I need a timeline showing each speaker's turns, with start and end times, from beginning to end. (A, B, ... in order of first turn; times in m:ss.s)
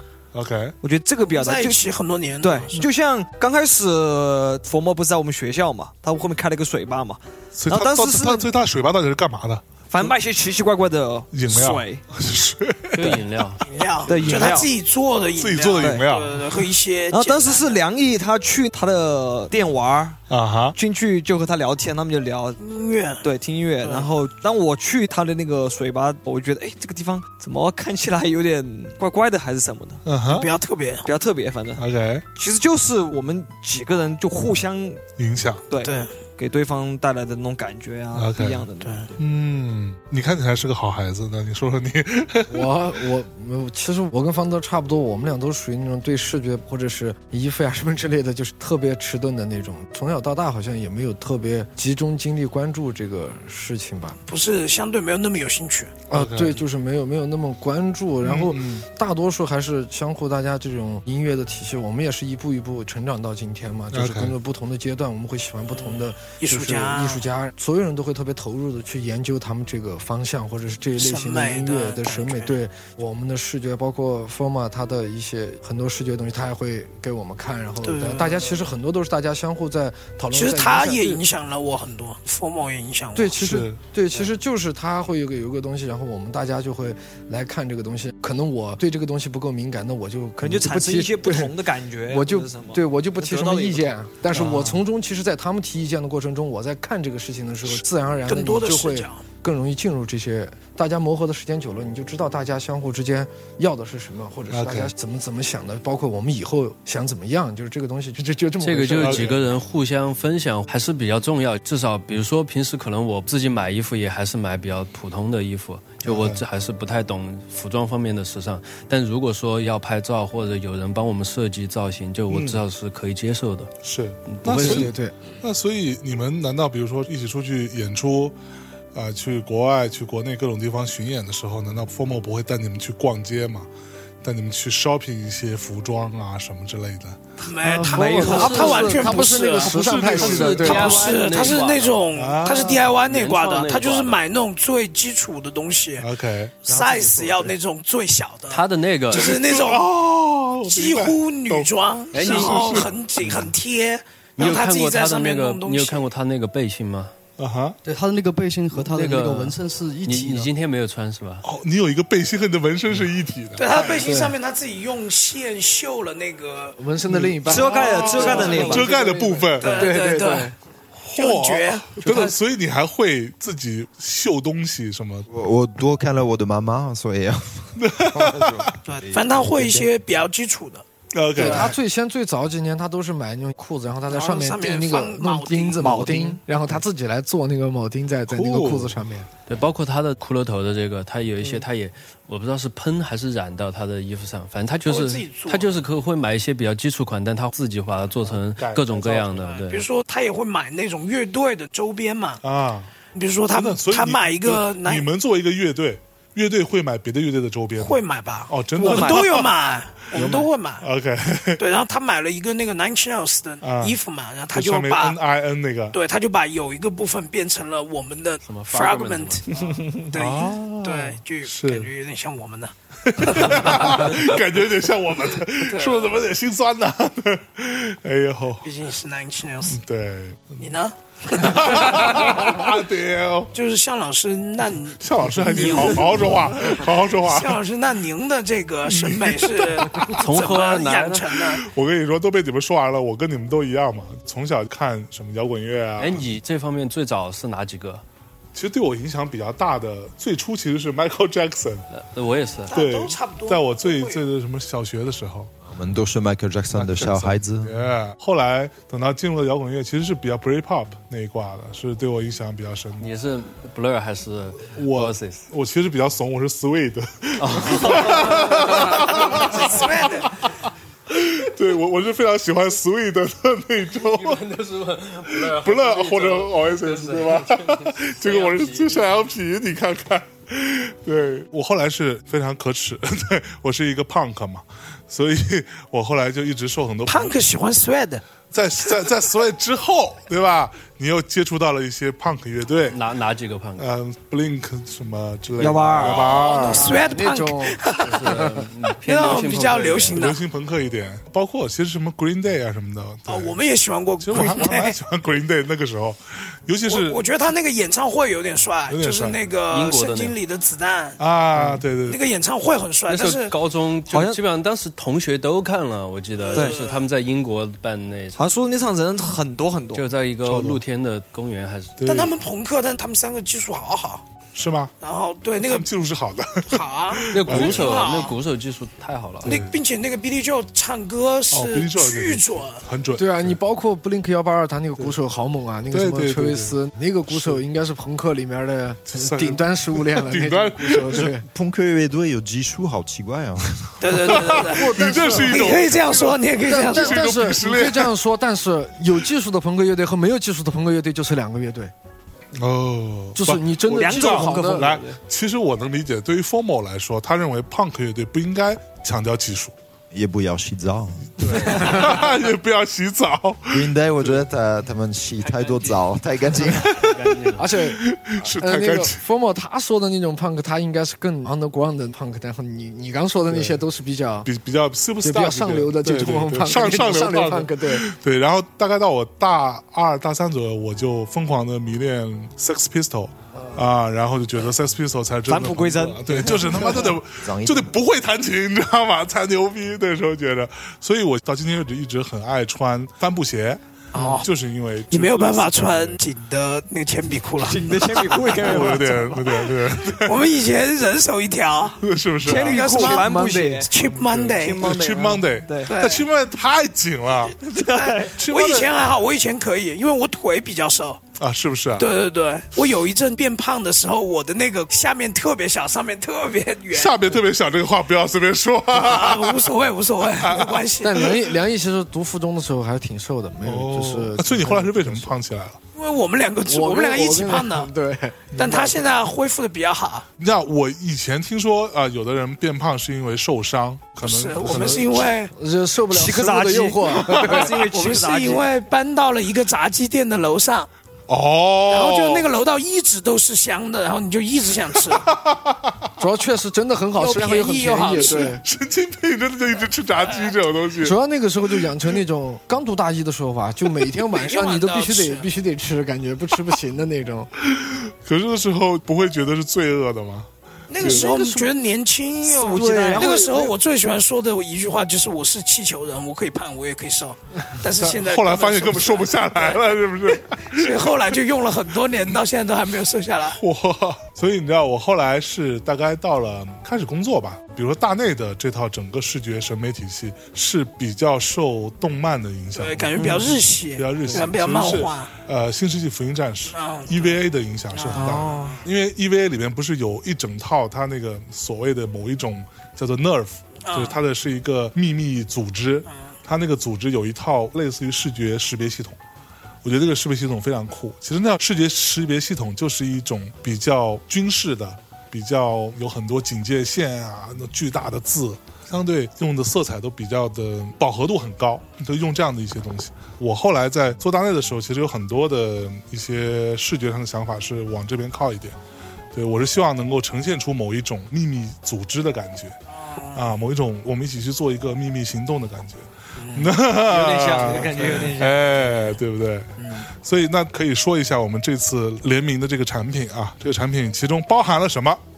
0:00.3-0:00.7 A
0:00.8-0:01.8 B
0:01.3-0:02.8 C
0:02.4-0:08.5 B
0:07.5-0:10.1 A
0:09.9-0:12.0 B
0:11.3-0:13.6 A
0:12.9-0:13.6 D
0:13.6-0:17.8 C
0:14.1-0:14.7 B
0:14.2-0:14.4 A
0:15.4-0:16.6 A
0:15.8-0:16.0 B
0:17.1-0:20.2 B
0:20.3-0:20.8 A
0:20.7-0:22.6 B
0:22.6-0:23.2 C
0:23.2-0:30.0 B
0:23.8-0:24.1 C
0:30.0-0:30.5 A
0:30.3-0:31.1 C
0:31.0-0:31.8 B
0:31.8-0:32.2 A
0:32.4-0:35.0 B
0:35.2-0:35.6 A
0:35.7-0:39.2 B
0:35.8-0:36.1 C
0:38.1-0:42.8 A
0:38.8-0:39.1 C
0:42.5-0:54.2 E
0:54.3-0:56.0 C
0:56.1-1:21.2 E
0:56.1-0:56.6 A
0:58.2-0:58.9 A
1:03.9-1:04.3 A
1:05.7-1:07.2 C
1:11.0-1:12.6 C
1:17.8-1:18.7 C
1:20.3-1:23.4 C
1:23.2-1:49.4 E
1:23.4-1:23.8 A
1:30.4-1:33.9 B
1:34.3-1:34.8 A
1:38.3-1:39.2 C
1:44.5-1:44.9 A
1:48.6-2:03.7 D
1:48.9-1:49.4 A
1:56.0-1:56.4 A
2:02.3-2:02.6 A
2:03.8-2:08.4 A
2:04.3-2:04.9 D
2:04.6-2:05.2 E
2:08.9-2:13.7 A
2:14.2-2:17.2 A
2:17.4-2:26.1 C
2:17.8-2:18.8 B
2:17.8-2:18.7 F
2:17.9-2:21.1 E
2:18.2-2:19.0 D
2:19.5-2:21.0 A
2:19.9-2:22.0 D
2:22.1-2:23.0 A
2:22.8-2:24.2 D
2:26.0-2:26.6 A
2:26.6-2:29.9 C
2:26.7-2:27.5 G
2:28.5-2:29.3 D
2:29.1-2:33.5 A
2:30.7-2:36.1 C
2:32.1-2:32.9 D
2:34.4-2:37.1 D
2:37.4-2:37.8 A
2:37.8-2:40.5 F
2:38.7-2:41.4 D
2:41.4-2:44.0 A
2:43.6-2:46.8 C
2:43.9-2:44.4 E
2:46.8-2:50.5 E
2:47.1-2:49.9 A
2:47.4-2:48.9 B
2:47.7-2:50.5 C
2:51.0-2:55.3 A
2:51.2-2:52.4 C
2:55.3-2:59.6 G
2:57.8-2:58.7 A
2:58.8-3:00.8 C
3:01.1-3:01.8 A
3:01.4-3:09.3 E
3:01.4-3:01.8 C
3:04.1-3:06.3 C
3:05.8-3:06.4 B
3:08.3-3:09.0 A
3:09.5-3:19.8 D
3:14.8-3:15.8 C
3:18.2-3:19.1 A
3:19.4-3:22.4 C
3:22.4-3:22.9 A
3:23.1-3:25.1 C
3:23.5-3:29.5 A
3:27.8-3:30.9 C
3:28.8-3:29.5 B
3:30.2-3:31.6 A
3:31.6-3:35.2 C
3:33.6-3:34.0 A
3:34.5-3:36.0 A
3:35.9-3:44.3 C
3:38.4-3:39.5 D
3:40.1-3:41.9 A
3:43.0-3:48.6 A
3:45.7-3:46.1 C
3:48.6-3:49.8 C
3:49.6-3:50.7 A
3:50.6-3:52.7 C
3:51.3-3:53.5 A
3:53.5-4:01.6 C
3:55.0-3:57.6 A
3:58.8-4:00.2 A
4:00.0-4:01.3 D
4:01.6-4:06.2 A
4:06.0-4:08.0 D
4:08.5-4:11.8 A
4:11.9-4:12.7 D
4:12.7-4:14.2 C
4:12.7-4:15.5 A
4:15.6-4:17.7 G
4:16.7-4:23.1 A
4:23.0-4:25.4 D
4:24.8-4:30.4 A
4:27.4-4:29.5 D
4:29.0-4:30.4 C
4:31.1-4:34.4 A
4:34.1-4:39.1 D
4:35.3-4:47.3 A
4:47.1-4:48.2 C
4:48.5-4:53.0 A
4:52.9-4:53.8 D
4:53.8-4:57.0 A
4:55.6-4:56.4 B
4:56.0-4:58.4 C
4:56.5-4:58.6 E
4:58.0-5:00.3 D
4:59.0-5:00.4 C
5:00.1-5:03.6 A
5:03.3-5:05.0 C
5:04.2-5:07.2 A
5:06.8-5:11.2 C
5:08.9-5:09.4 A
5:09.7-5:10.4 D
5:11.2-5:12.2 A
5:11.5-5:11.8 D
5:12.1-5:13.5 C
5:13.1-5:18.4 D
5:14.1-5:14.4 B
5:16.4-5:17.0 C
5:18.4-5:20.0 B
5:19.9-5:22.0 D
5:20.4-5:20.8 A
5:22.0-5:22.3 A
5:22.0-5:24.2 C
5:24.5-5:24.9 A
5:25.0-5:25.8 C
5:25.6-5:28.0 A
5:26.7-5:28.4 C
5:27.3-5:29.6 D
5:29.4-5:29.8 A
5:29.4-5:32.8 C
5:31.5-5:33.6 A
5:33.2-5:41.4 E
5:35.9-5:36.8 A
5:37.3-5:37.6 A
5:39.1-5:41.3 A
5:41.1-5:44.1 G
5:44.0-5:47.3 C
5:44.1-5:48.2 A
5:44.6-5:45.8 E
5:46.6-5:51.9 E
5:52.5-5:59.7 A
5:53.4-5:54.9 E
5:53.9-5:55.2 B
6:00.1-6:02.2 G
6:01.4-6:04.3 A
6:03.7-6:07.1 G
6:05.4-6:07.7 D
6:07.6-6:14.5 E
6:07.8-6:09.2 A
6:13.5-6:13.8 A
6:14.4-6:33.8 A
6:15.2-6:18.1 E
6:25.5-6:27.0 B
6:27.3-6:28.0 G
6:34.1-6:34.5 C
6:34.4-6:36.2 A
6:35.1-6:38.9 C
6:37.6-6:39.5 B
6:38.5-6:40.6 A
6:39.7-6:44.9 C
6:42.0-6:42.8 A
6:42.4-6:45.9 B
6:42.6-6:43.9 E
6:44.8-6:47.6 A
6:45.9-6:46.2 C
6:47.6-6:48.9 B
6:47.9-6:51.2 C
6:48.4-6:48.8 A
6:51.4-6:52.1 A
6:52.0-6:57.4 C
6:56.9-6:59.7 A
6:58.9-7:01.3 C
7:00.2-7:01.3 A
7:01.0-7:05.3 E
7:03.6-7:05.8 A
7:06.0-7:07.9 C
7:06.6-7:09.0 E
7:08.5-7:10.3 C
7:10.4-7:15.3 A
7:14.2-7:15.5 C
7:14.6-7:17.8 E
7:16.1-7:18.7 B
7:17.8-7:20.9 C
7:21.3-7:22.5 A
7:21.9-7:25.2 C
7:24.9-7:26.0 A
7:26.2-7:28.6 E
7:27.2-7:28.6 C
7:28.1-7:32.2 A
7:30.2-7:30.5 C
7:31.0-7:37.5 E
7:34.3-7:35.5 C
7:37.7-7:41.3 A
7:40.9-7:49.8 C
7:42.4-7:43.7 B
7:47.9-7:51.4 A
7:50.6-7:53.6 C
7:53.5-8:19.2 A
8:02.8-8:05.3 C
8:03.2-8:03.5 B
8:06.7-8:07.3 C
8:07.9-8:08.8 C
8:08.1-8:08.8 B
8:13.8-8:14.2 C
8:19.8-8:38.8 A
8:39.3-8:42.7 A
8:43.0-8:43.4 C
8:43.3-8:55.2 A
8:46.4-8:46.7 C
8:47.1-8:48.7 B
8:49.8-8:50.1 C